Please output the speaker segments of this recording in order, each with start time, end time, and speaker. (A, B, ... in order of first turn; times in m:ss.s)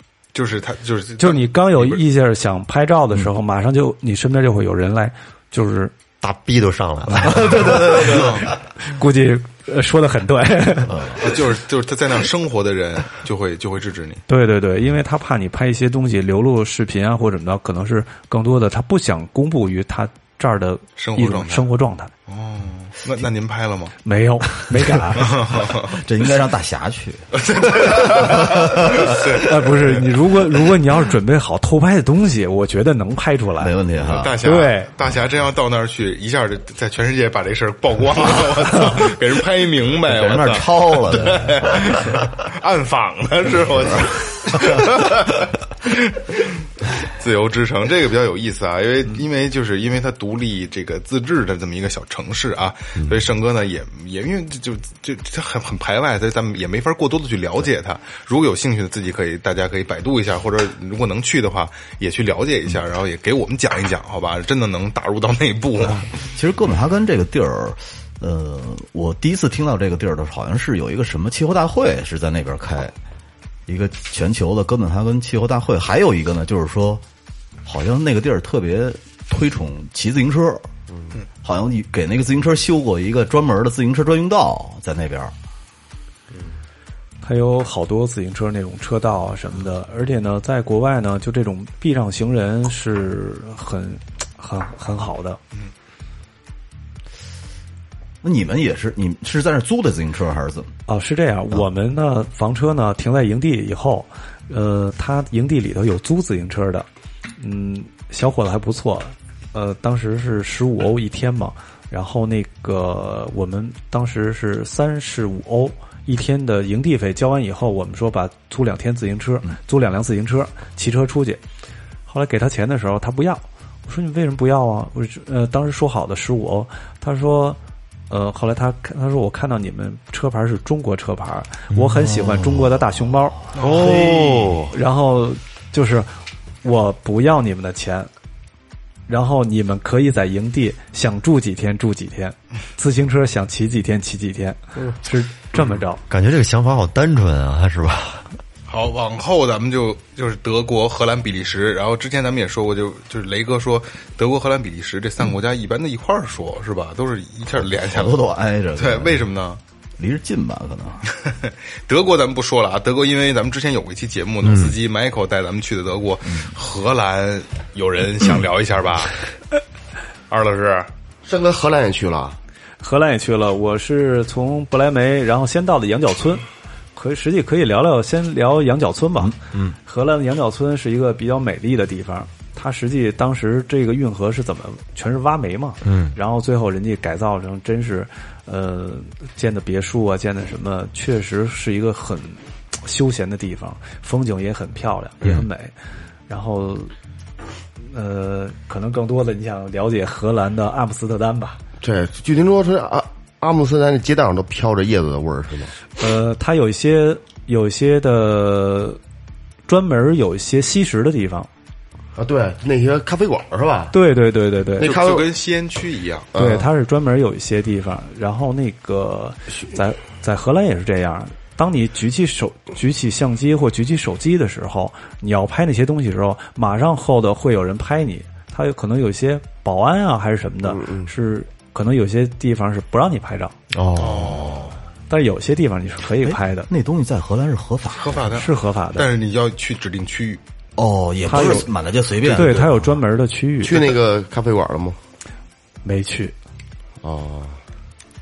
0:00.3-0:02.0 A
0:01.2-0:06.0 B
0:06.2-0:08.2 C
0:07.2-0:11.1 B
0:07.6-0:08.3 D
0:08.1-0:08.5 A
0:10.9-0:11.3 D
0:11.2-0:14.2 A
0:14.3-0:22.1 B
0:21.0-0:21.8 A
0:22.3-0:24.0 A
0:24.0-0:25.4 B
0:25.2-0:26.0 A
0:25.2-0:29.2 D
0:27.4-0:30.1 A
0:29.1-0:33.8 B
0:33.6-0:34.4 D
0:34.0-1:06.1 A
0:34.4-0:34.9 B
0:40.0-0:42.0 D
1:06.2-1:13.0 D
1:13.7-1:17.0 D
1:17.6-1:20.7 D
1:21.4-1:25.3 D
1:27.2-1:35.4 B
1:38.2-1:40.7 D
1:40.9-1:46.9 B
1:47.4-2:01.4 B
2:02.1-2:07.6 B
2:08.1-2:18.1 B
2:11.8-2:12.4 C
2:13.6-2:14.5 A
2:13.6-2:14.8 C
2:19.1-2:26.0 B
2:26.1-2:28.4 C
2:28.7-2:39.6 A
2:37.8-2:39.3 D
2:40.0-2:41.0 D
2:41.1-2:49.2 A
2:50.3-2:50.9 A
2:51.2-2:52.4 E
2:52.8-3:15.7 B
2:59.2-2:59.6 D
3:05.8-3:06.2 C
3:16.3-3:16.9 B
3:17.8-3:21.6 B
3:21.8-3:25.8 E
3:26.0-3:29.0 B
3:29.7-3:31.5 B
3:32.2-3:34.0 E
3:33.9-3:35.0 B
3:34.8-3:35.3 E
3:34.8-3:36.3 A
3:36.3-3:36.7 E
3:36.4-3:53.6 B
3:50.8-3:51.1 E
3:53.7-3:54.7 C
3:54.0-3:54.8 A
3:55.1-3:56.7 B
3:56.2-3:58.3 D
3:58.0-4:00.4 A
3:58.3-3:59.1 B
4:00.8-4:02.7 D
4:01.3-4:03.8 B
4:02.3-4:02.8 A
4:03.6-4:05.0 E
4:05.8-4:06.4 B
4:07.0-4:07.6 E